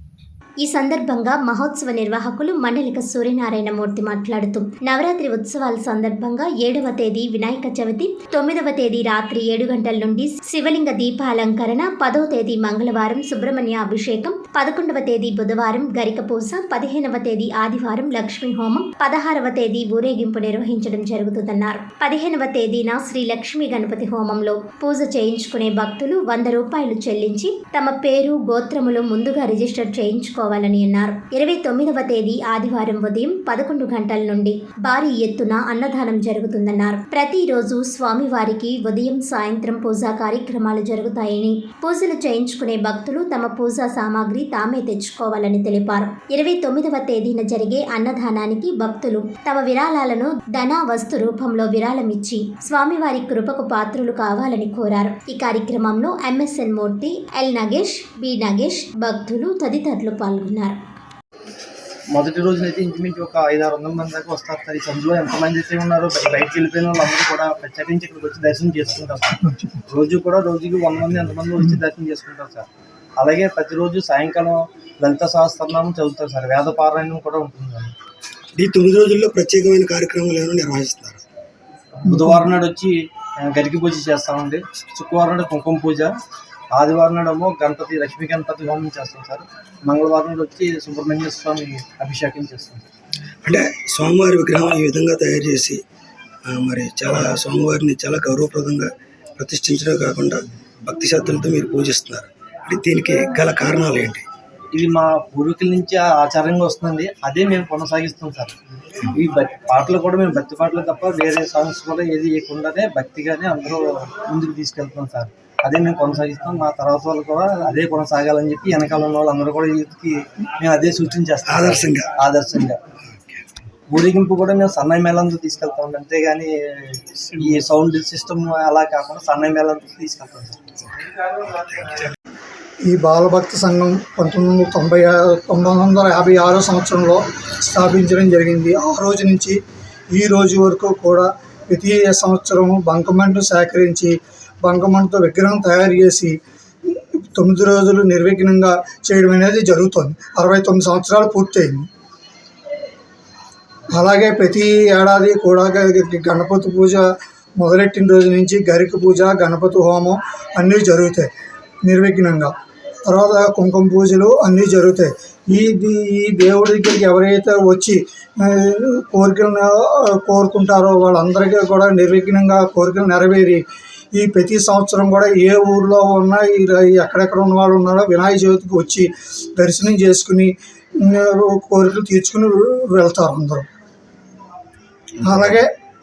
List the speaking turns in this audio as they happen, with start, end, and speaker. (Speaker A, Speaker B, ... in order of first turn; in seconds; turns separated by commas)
Speaker A: 0.6-60.8, Speaker B: 62.1-72.7, Speaker B: 73.2-77.9, Speaker C: 78.5-81.2, Speaker B: 82.0-86.1, Speaker B: 86.7-92.9, Speaker C: 93.4-95.8, Speaker C: 96.4-104.2, Speaker B: 104.7-108.5, Speaker B: 109.1-122.8, Speaker C: 121.5-122.1, Speaker B: 123.9-130.8, Speaker C: 131.5-132.1, Speaker D: 132.8-139.6, Speaker D: 140.1-151.9, Speaker D: 153.9-161.3, Speaker D: 161.8-162.5, Speaker D: 163.1-173.6, Speaker D: 174.1-183.7, Speaker D: 185.2-185.7